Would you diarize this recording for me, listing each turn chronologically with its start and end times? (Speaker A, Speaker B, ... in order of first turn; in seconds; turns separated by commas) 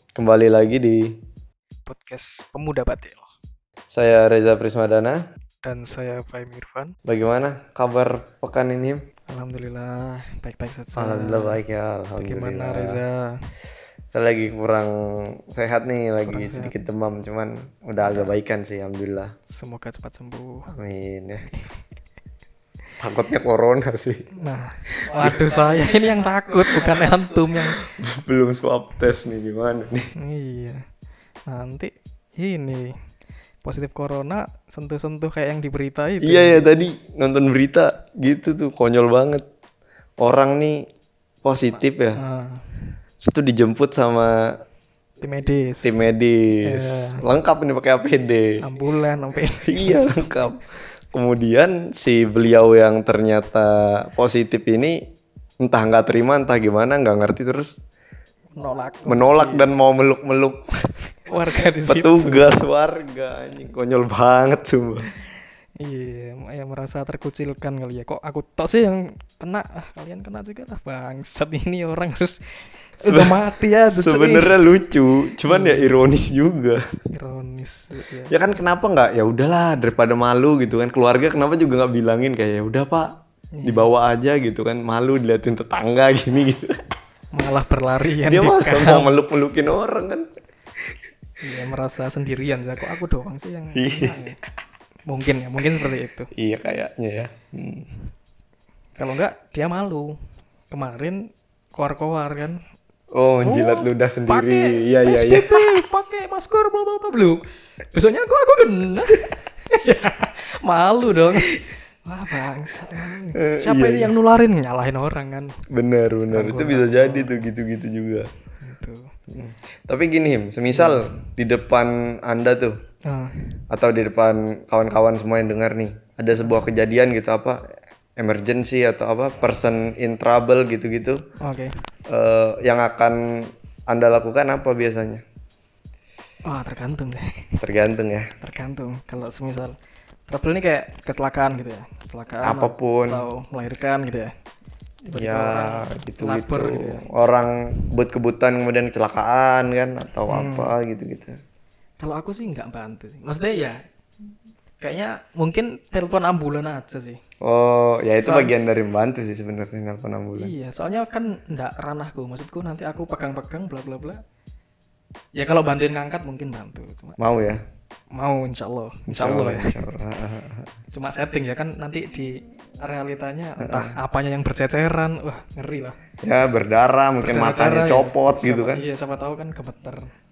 Speaker A: 0.2-1.1, Speaker B: 1.9-3.3, Speaker A: 3.9-5.2, Speaker B: 5.6-6.9, Speaker A: 7.1-9.0, Speaker B: 9.3-11.6, Speaker A: 11.0-13.0, Speaker B: 12.2-13.3, Speaker A: 14.1-19.3, Speaker B: 16.3-16.7, Speaker B: 18.0-18.3, Speaker B: 19.5-20.7, Speaker A: 20.7-21.4, Speaker A: 23.0-24.2, Speaker B: 24.4-27.8, Speaker A: 25.1-25.4, Speaker A: 26.8-27.0, Speaker A: 27.8-30.1, Speaker B: 30.2-30.8, Speaker B: 31.5-32.9, Speaker B: 33.6-36.7, Speaker A: 36.2-39.4, Speaker A: 40.2-40.8, Speaker A: 41.4-42.2, Speaker B: 42.2-42.9, Speaker A: 43.2-44.5, Speaker B: 45.2-46.0, Speaker A: 45.8-48.5, Speaker B: 46.6-47.2, Speaker B: 48.6-50.3, Speaker A: 49.6-55.0, Speaker A: 55.6-57.8, Speaker B: 58.6-59.7, Speaker A: 59.1-60.6, Speaker B: 61.2-62.6, Speaker A: 61.6-65.1, Speaker B: 65.8-74.6, Speaker A: 73.0-73.4, Speaker A: 73.9-76.8, Speaker B: 75.5-75.9, Speaker B: 77.1-78.3, Speaker A: 78.3-83.1, Speaker B: 83.6-83.9, Speaker A: 83.7-86.8, Speaker B: 87.3-89.1, Speaker A: 88.2-90.3, Speaker B: 91.4-94.4, Speaker A: 93.8-94.3, Speaker B: 95.1-96.3, Speaker A: 96.4-97.9, Speaker B: 99.0-100.1, Speaker B: 100.7-101.2, Speaker B: 101.8-102.6, Speaker A: 103.1-105.8, Speaker B: 103.4-115.5, Speaker A: 113.4-114.2, Speaker A: 115.7-118.3, Speaker B: 116.3-117.5, Speaker B: 118.6-119.1, Speaker A: 119.3-122.8, Speaker B: 120.7-121.2, Speaker B: 123.1-123.6, Speaker A: 123.7-127.6, Speaker A: 128.2-131.2, Speaker B: 131.4-131.8, Speaker A: 132.1-135.2, Speaker B: 136.5-137.5, Speaker A: 137.6-138.3, Speaker B: 138.4-139.8, Speaker B: 140.3-144.3, Speaker A: 142.4-143.2, Speaker B: 145.1-147.1, Speaker A: 145.1-151.4, Speaker B: 150.3-150.7, Speaker B: 152.0-153.8, Speaker B: 154.8-157.2, Speaker A: 157.4-160.5, Speaker B: 158.2-158.5, Speaker B: 160.4-164.2, Speaker B: 165.4-167.2, Speaker A: 167.2-167.6, Speaker B: 168.2-169.8, Speaker A: 169.1-170.7, Speaker B: 170.9-176.0, Speaker A: 173.6-174.0, Speaker A: 176.2-178.8, Speaker B: 177.2-180.1